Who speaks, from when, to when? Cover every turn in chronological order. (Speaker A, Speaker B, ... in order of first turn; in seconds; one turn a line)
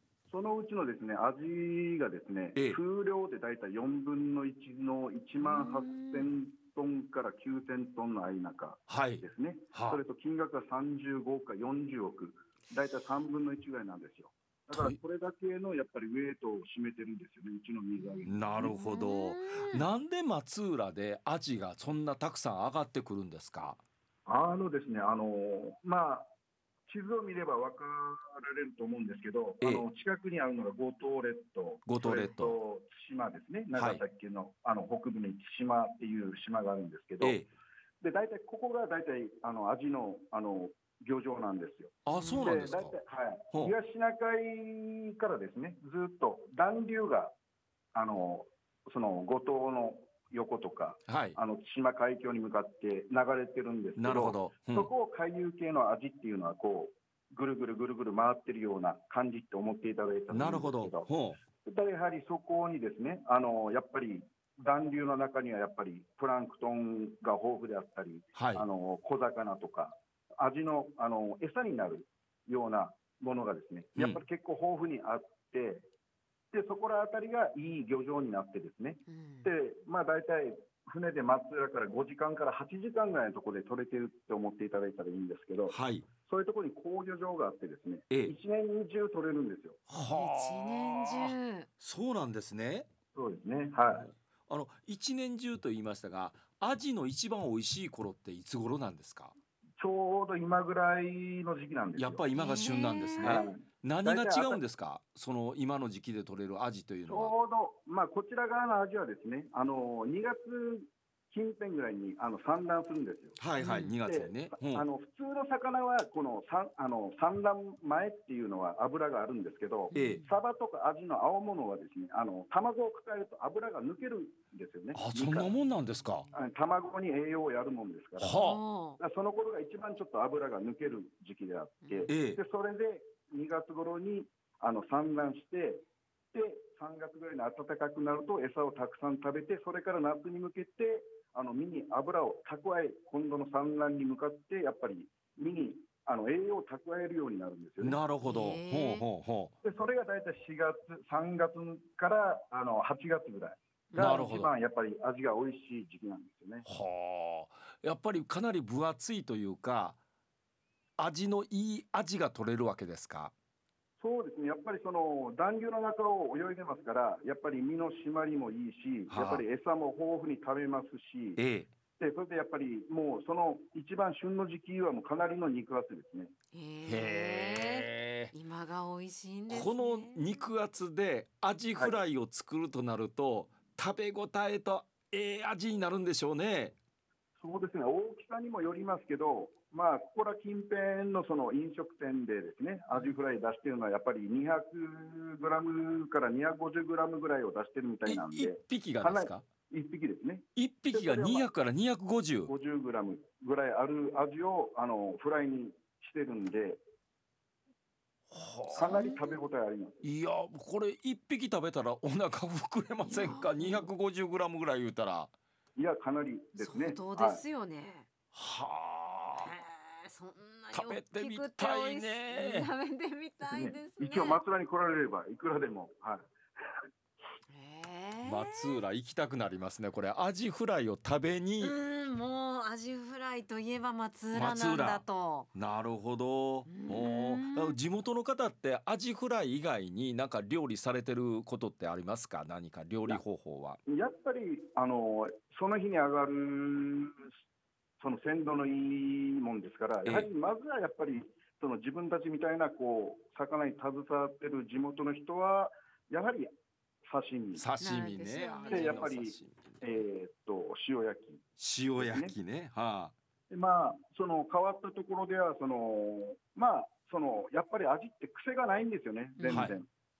Speaker A: 0.3-18.7
Speaker B: 5.4-6.3
Speaker C: 8.9-10.0
Speaker C: 14.7-15.0
Speaker B: 18.0-19.9
Speaker C: 18.3-23.8
Speaker A: 24.2-26.3
Speaker A: 26.9-37.4
Speaker C: 31.9-32.6
Speaker C: 33.7-34.0
Speaker C: 37.2-37.5
Speaker A: 38.0-47.3
Speaker C: 42.0-42.9
Speaker B: 42.1-42.6
Speaker A: 47.9-61.1
Speaker C: 51.1-51.4
Speaker C: 54.0-54.9
Speaker C: 60.3-61.4
Speaker A: 61.6-75.8
Speaker C: 68.3-68.7
Speaker A: 76.5-85.8
Speaker B: 79.1-79.5
Speaker C: 85.7-86.0
Speaker A: 86.3-89.8
Speaker C: 89.9-92.9
Speaker B: 89.9-91.7
Speaker A: 93.1-94.1
Speaker C: 93.9-99.3
Speaker A: 99.8-102.2
Speaker C: 102.0-107.3
Speaker B: 102.3-103.5
Speaker A: 103.2-104.6
Speaker A: 107.0-113.5
Speaker C: 113.4-114.8
Speaker B: 113.6-114.0
Speaker A: 114.0-125.5
Speaker C: 119.9-120.2
Speaker B: 119.9-120.2
Speaker C: 124.9-126.3
Speaker A: 126.3-128.4
Speaker C: 128.2-128.6
Speaker B: 128.3-129.0
Speaker A: 129.0-148.0
Speaker B: 131.8-132.1
Speaker C: 132.1-132.4
Speaker C: 147.8-149.5
Speaker B: 148.2-149.1
Speaker A: 149.6-156.7
Speaker B: 153.9-154.3
Speaker C: 153.9-154.5
Speaker C: 156.7-160.0
Speaker C: 161.0-163.3
Speaker A: 164.0-171.4
Speaker C: 169.1-169.4
Speaker C: 171.4-171.7
Speaker A: 172.0-176.3
Speaker B: 176.5-180.4
Speaker C: 176.8-178.3
Speaker C: 179.5-186.8
Speaker A: 187.4-201.5
Speaker C: 198.1-199.4
Speaker C: 200.5-202.5
Speaker A: 202.5-206.8
Speaker C: 208.3-209.1
Speaker B: 208.7-209.4
Speaker A: 208.7-210.0
Speaker C: 210.0-215.3
Speaker B: 213.0-213.9
Speaker A: 215.8-217.4
Speaker B: 216.5-218.1
Speaker C: 218.3-219.6
Speaker B: 219.4-224.4
Speaker C: 220.7-222.7
Speaker A: 223.5-226.3
Speaker B: 227.5-228.8
Speaker C: 228.2-231.7
Speaker B: 231.6-235.5
Speaker C: 234.3-235.0
Speaker C: 235.5-243.8
Speaker B: 236.7-237.8
Speaker A: 243.9-247.3
Speaker A: 248.0-256.5
Speaker A: 257.1-257.6
Speaker C: 257.6-260.0
Speaker B: 257.8-259.1
Speaker A: 258.7-261.4
Speaker C: 261.6-263.1
Speaker A: 262.0-262.3
Speaker A: 263.5-269.9
Speaker B: 269.4-269.7
Speaker C: 269.5-269.8